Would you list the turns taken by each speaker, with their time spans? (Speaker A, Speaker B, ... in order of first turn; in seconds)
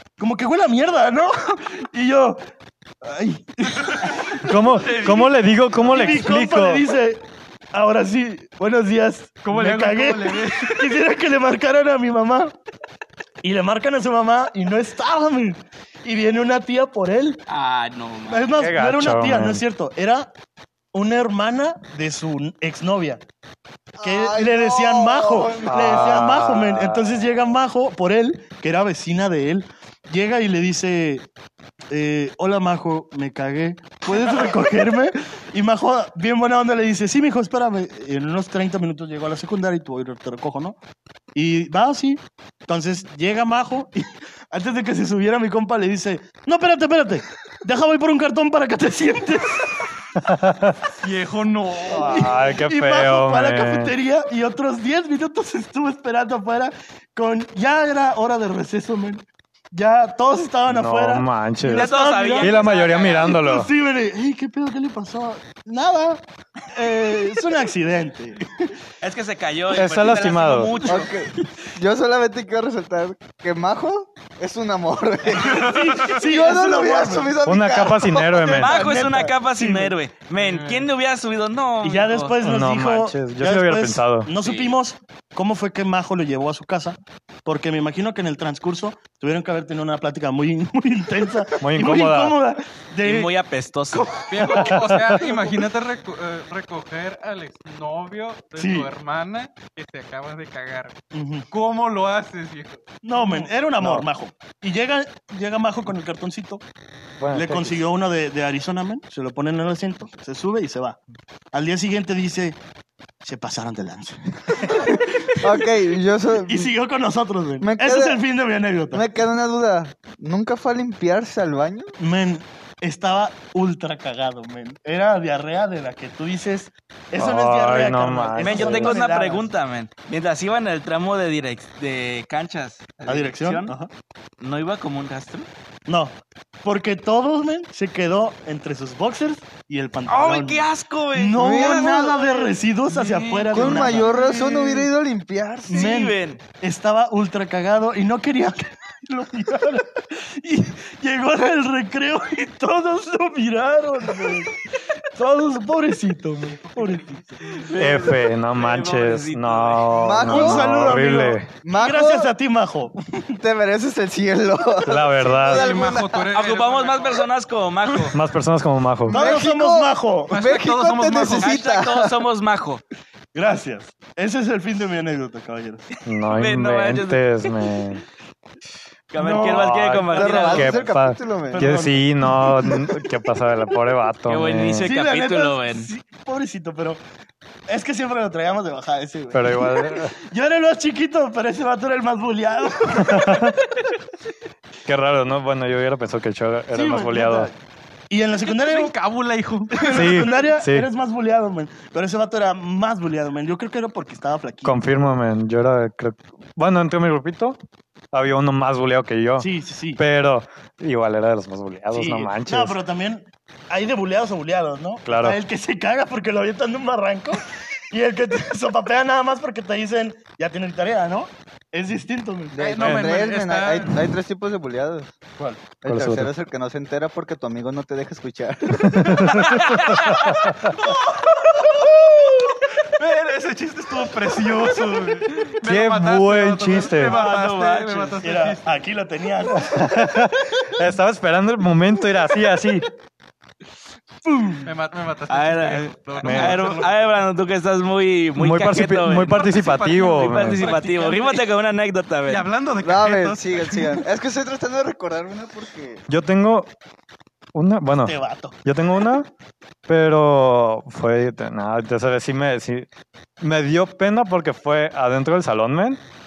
Speaker A: 0.2-2.4, 3.0-4.5, 5.8-12.5, 13.4-17.4, 18.3-20.3, 20.9-23.2, 24.0-31.2, 31.9-40.8, 41.3-49.8, 51.9-68.8, 70.8-71.1, 75.4-77.4, 78.6-80.0, 81.8-93.3, 93.9-94.5, 98.6-98.9, 101.1-101.5, 103.0-106.6, 107.3-111.0, 111.5-112.6, 113.2-115.7, 116.5-119.1, 122.0-129.5, 133.1-133.9, 135.9-144.6, 145.7-157.2, 160.2-163.3, 169.1-170.4, 173.3-175.8, 179.1-180.4, 181.5-183.1, 184.8-187.0, 187.7-193.6, 196.7-197.5, 198.1-198.9, 199.7-204.8, 209.4-210.0, 211.9-222.8, 238.2-239.9, 244.2-244.7, 250.7-251.1, 258.0-258.6
Speaker B: 4.4-6.8, 18.6-19.6, 25.6-27.1, 50.1-50.8, 52.0-53.9, 60.7-63.7, 69.7-70.7, 77.4-78.8, 82.4-84.3, 91.6-92.3, 94.5-95.2, 103.8-104.1, 107.2-107.8, 127.2-129.0, 157.7-161.5, 164.8-165.8, 168.1-169.2, 176.0-178.0, 180.1-184.9, 189.3-190.1, 193.0-193.6, 194.8-197.5, 199.8-200.9, 204.6-207.6, 208.1-212.8, 215.0-215.4, 222.8-223.1, 225.9-226.3, 228.8-230.7, 235.6-237.2, 239.5-242.9, 246.2-246.6, 248.3-250.7, 256.1-256.7, 257.5-259.3, 259.9-262.9, 263.4-266.0
Speaker C: 4.9-5.3, 9.4-11.0, 51.0-52.3, 75.4-76.0, 80.3-80.9, 94.2-101.0, 101.5-103.5, 142.9-144.9, 156.6-157.7, 165.4-167.3, 170.3-171.6, 198.4-200.3, 222.6-224.1, 230.7-238.8, 244.6-247.2, 249.3-251.5, 252.3-254.0
Speaker D: 17.5-18.5, 61.7-63.4, 69.0-71.1, 78.5-82.3, 84.4-84.7, 93.0-94.5, 128.4-133.8, 134.4-135.5, 140.1-142.2, 145.7-146.4, 157.5-160.2, 166.3-168.2, 171.4-172.8, 176.2-178.0, 179.1-180.8, 184.3-185.9, 237.0-238.3, 245.3-252.5
Speaker E: 24.0-25.9, 70.8-78.9, 115.3-116.7, 117.6-118.2, 118.9-122.0, 141.3-142.5, 143.4-145.9, 159.9-161.0, 161.6-162.3, 163.4-166.3, 169.1-172.1, 180.1-181.9, 222.5-225.2, 225.8-229.6, 252.8-256.0